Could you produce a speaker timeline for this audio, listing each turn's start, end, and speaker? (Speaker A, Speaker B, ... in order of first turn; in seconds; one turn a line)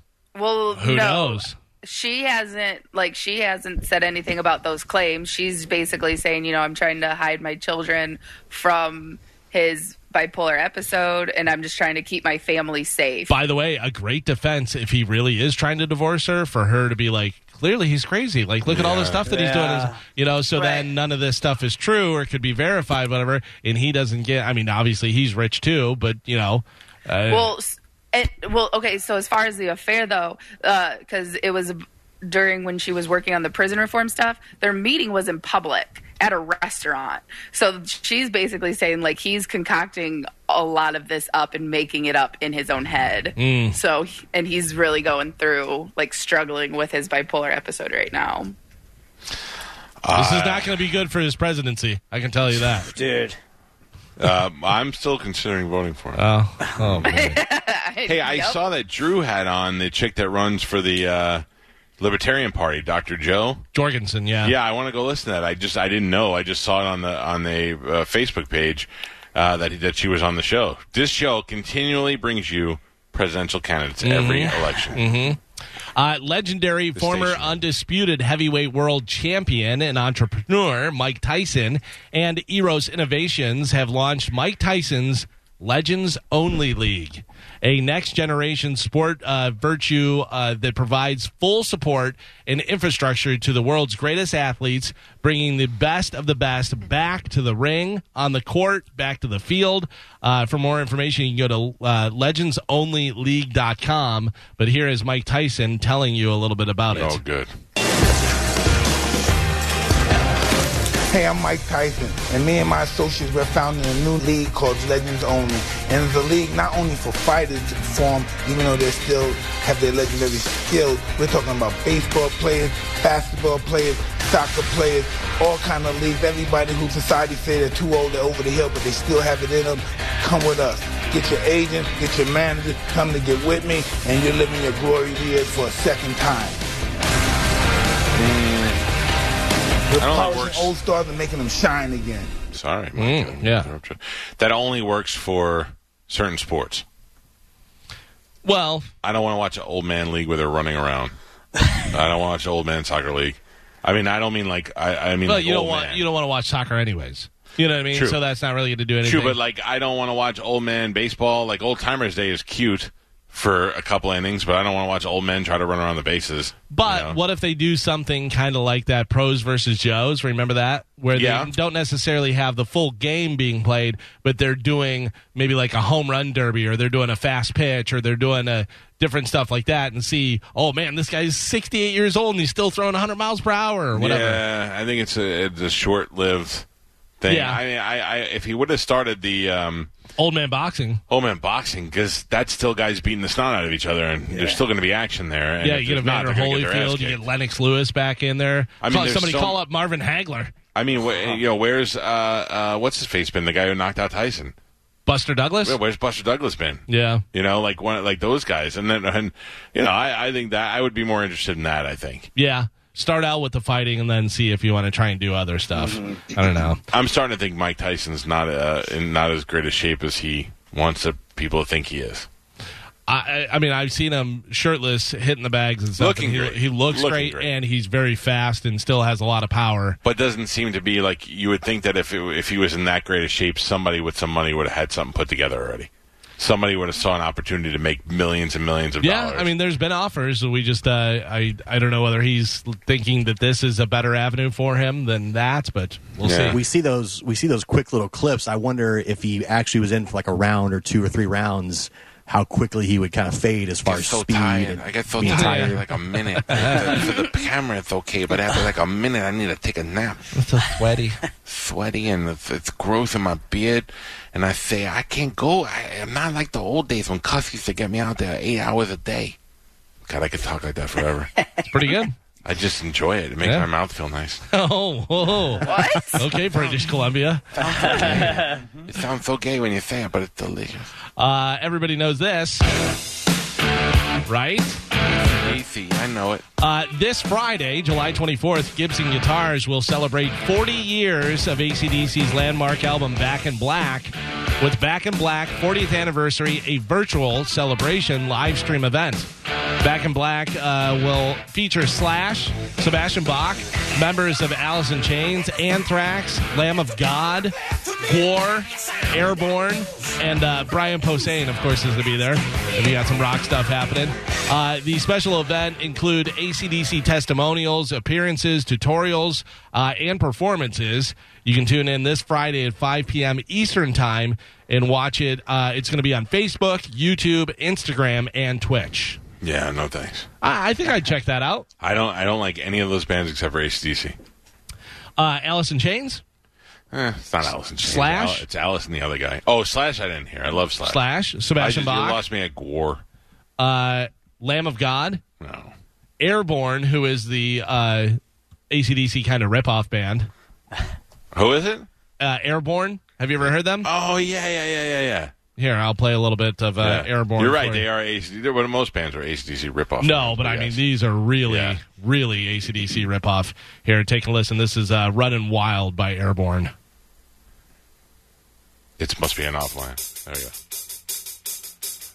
Speaker A: 0.3-13.3
Speaker B: 0.8-1.6
Speaker B: 13.3-27.5
Speaker C: 18.7-19.2
Speaker D: 19.3-20.0
Speaker A: 27.3-48.5
Speaker B: 43.4-43.8
Speaker C: 50.0-50.7
Speaker B: 50.1-52.9
Speaker D: 52.9-53.4
Speaker C: 54.2-56.2
Speaker B: 56.2-57.4
Speaker C: 56.8-57.1
Speaker A: 57.0-58.6
Speaker C: 58.1-61.4
Speaker C: 62.0-63.6
Speaker B: 63.7-64.5
Speaker C: 64.4-75.0
Speaker B: 74.0-75.4
Speaker B: 76.0-107.2
Speaker C: 77.0-77.6
Speaker C: 106.9-107.5
Speaker E: 111.1-136.6
Speaker C: 138.2-138.8
Speaker E: 139.9-142.3
Speaker C: 140.0-140.7
Speaker C: 142.5-146.8
Speaker B: 143.0-143.7
Speaker B: 148.4-148.9
Speaker C: 149.0-151.2
Speaker C: 151.9-156.0
Speaker B: 155.2-159.4
Speaker C: 157.9-158.2
Speaker C: 159.0-167.2
Speaker B: 166.7-184.4
Speaker C: 171.1-171.5
Speaker C: 184.0-186.7
Speaker C: 187.2-189.9
Speaker B: 187.3-187.6
Speaker B: 190.2-191.0
Speaker C: 191.1-197.2
Speaker D: 194.3-194.6
Speaker B: 195.6-200.5
Speaker C: 198.8-199.6
Speaker C: 200.8-204.6
Speaker B: 205.1-205.8
Speaker C: 205.6-212.3
Speaker B: 206.9-207.2
Speaker B: 212.4-216.8
Speaker D: 215.8-216.2
Speaker C: 216.9-222.3
Speaker B: 223.1-230.0
Speaker C: 226.0-227.5
Speaker C: 230.0-239.5
Speaker B: 239.0-246.6
Speaker C: 246.2-246.6
Speaker F: 246.5-256.4
Speaker C: 253.8-260.3
Speaker B: 255.2-255.8
Speaker B: 256.5-257.0
Speaker B: 260.3-261.2
Speaker C: 261.5-269.4
Speaker C: 270.1-271.3
Speaker B: 271.7-272.1
Speaker C: 272.4-274.4
Speaker B: 274.5-277.4
Speaker A: 275.6-276.2
Speaker C: 277.6-280.9
Speaker D: 277.7-278.7
Speaker B: 281.2-282.7
Speaker B: 284.3-284.8
Speaker C: 285.2-286.4
Speaker B: 286.6-299.3
Speaker B: 299.8-329.2
Speaker C: 329.4-330.3
Speaker B: 330.4-331.7
Speaker C: 331.8-334.2
Speaker B: 335.2-336.2
Speaker C: 336.9-341.0
Speaker B: 337.8-338.4
Speaker B: 340.8-342.2
Speaker C: 341.6-343.0
Speaker B: 343.6-345.2
Speaker C: 345.4-345.7
Speaker B: 346.2-350.3
Speaker C: 351.3-351.9
Speaker B: 352.2-353.9
Speaker C: 353.8-355.3
Speaker B: 355.6-357.9
Speaker C: 356.8-360.8
Speaker B: 360.0-366.7
Speaker C: 361.5-361.8
Speaker C: 369.0-370.5